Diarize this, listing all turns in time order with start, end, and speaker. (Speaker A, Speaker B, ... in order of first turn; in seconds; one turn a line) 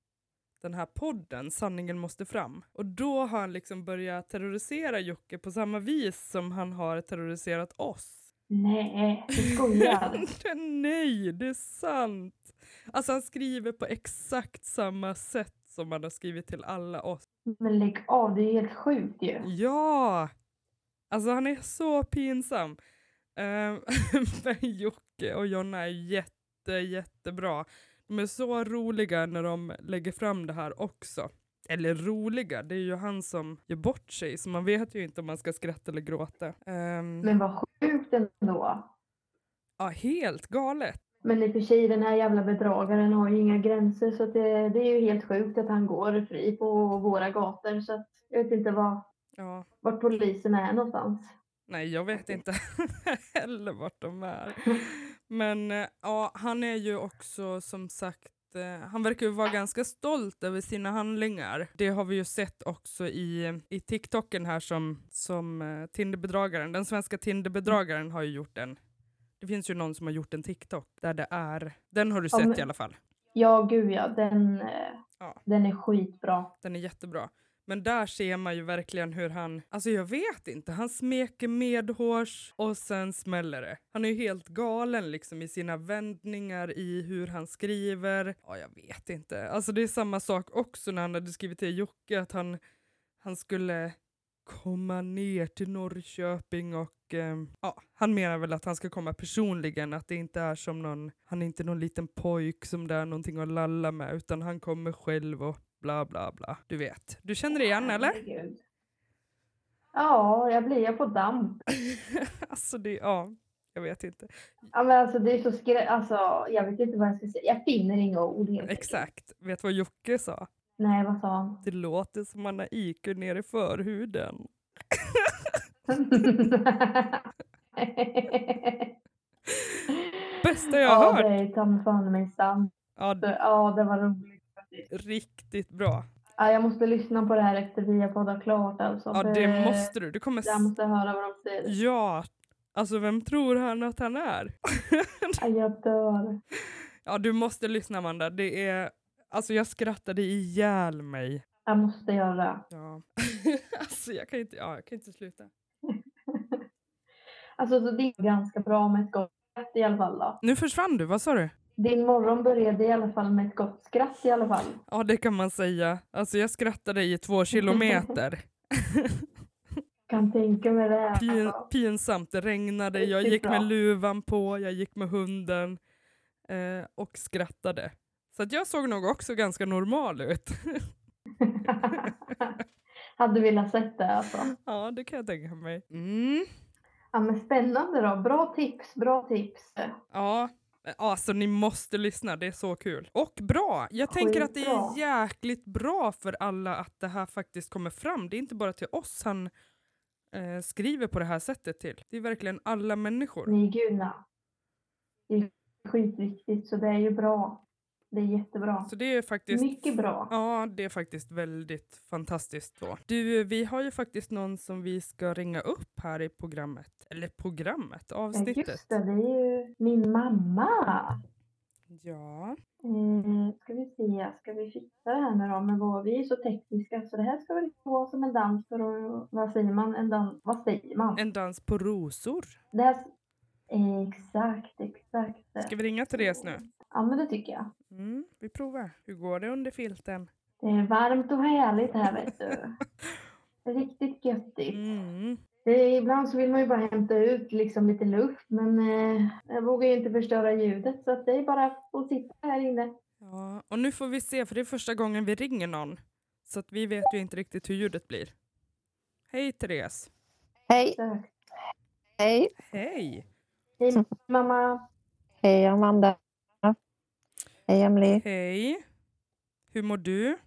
Speaker A: 0.6-8.3
Speaker B: 8.5-10.2
Speaker A: 9.4-17.2
Speaker B: 17.6-19.5
Speaker A: 19.4-20.3
Speaker A: 21.1-22.8
Speaker A: 23.4-37.3
Speaker B: 37.2-38.9
Speaker A: 39.8-41.0
Speaker B: 41.2-49.0
Speaker A: 49.4-49.7
Speaker B: 49.8-51.3
Speaker A: 51.7-68.8
Speaker A: 69.4-73.0
Speaker B: 72.3-72.6
Speaker B: 73.3-76.5
Speaker A: 76.6-92.6
Speaker A: 93.2-108.2
Speaker B: 107.5-108.6
Speaker B: 109.9-111.6
Speaker A: 111.8-114.3
Speaker B: 114.7-119.0
Speaker A: 118.6-120.5
Speaker B: 120.8-121.6
Speaker A: 121.6-125.6
Speaker B: 125.9-127.2
Speaker B: 127.8-128.9
Speaker A: 129.5-129.8
Speaker B: 129.9-134.9
Speaker A: 130.4-131.3
Speaker A: 133.0-133.3
Speaker A: 134.9-136.0
Speaker B: 136.4-139.9
Speaker A: 139.1-140.7
Speaker B: 140.4-141.7
Speaker A: 141.6-145.4
Speaker B: 145.4-146.4
Speaker A: 147.1-151.4
Speaker B: 151.7-152.6
Speaker A: 152.7-155.5
Speaker B: 155.9-156.6
Speaker B: 157.6-160.4
Speaker A: 160.4-161.5
Speaker B: 161.8-164.8
Speaker A: 164.9-169.2
Speaker B: 170.1-171.6
Speaker A: 171.2-175.8
Speaker B: 173.0-173.7
Speaker A: 176.5-180.9
Speaker B: 181.4-182.5
Speaker A: 181.8-182.3
Speaker B: 183.2-184.5
Speaker A: 184.5-186.5
Speaker B: 187.1-189.9
Speaker A: 190.1-199.5
Speaker B: 194.1-195.0
Speaker A: 200.3-203.5
Speaker B: 203.5-204.2
Speaker B: 205.3-208.9
Speaker A: 208.9-218.9
Speaker B: 209.5-210.3
Speaker B: 218.3-221.2
Speaker A: 221.9-222.6
Speaker B: 222.8-231.2
Speaker A: 231.2-232.6
Speaker B: 232.7-233.1
Speaker B: 233.7-237.7
Speaker A: 235.6-236.6
Speaker A: 237.9-240.3
Speaker B: 240.6-242.8
Speaker B: 243.7-244.8
Speaker A: 244.7-245.4
Speaker B: 245.7-252.9
Speaker A: 253.2-258.3
Speaker A: 259.3-260.1
Speaker C: 260.7-261.0
Speaker B: 261.0-261.3
Speaker C: 262.2-262.5
Speaker A: 262.6-263.2
Speaker B: 263.8-264.8
Speaker C: 265.4-266.7
Speaker C: 267.7-268.2
Speaker A: 268.2-268.8
Speaker A: 269.7-270.4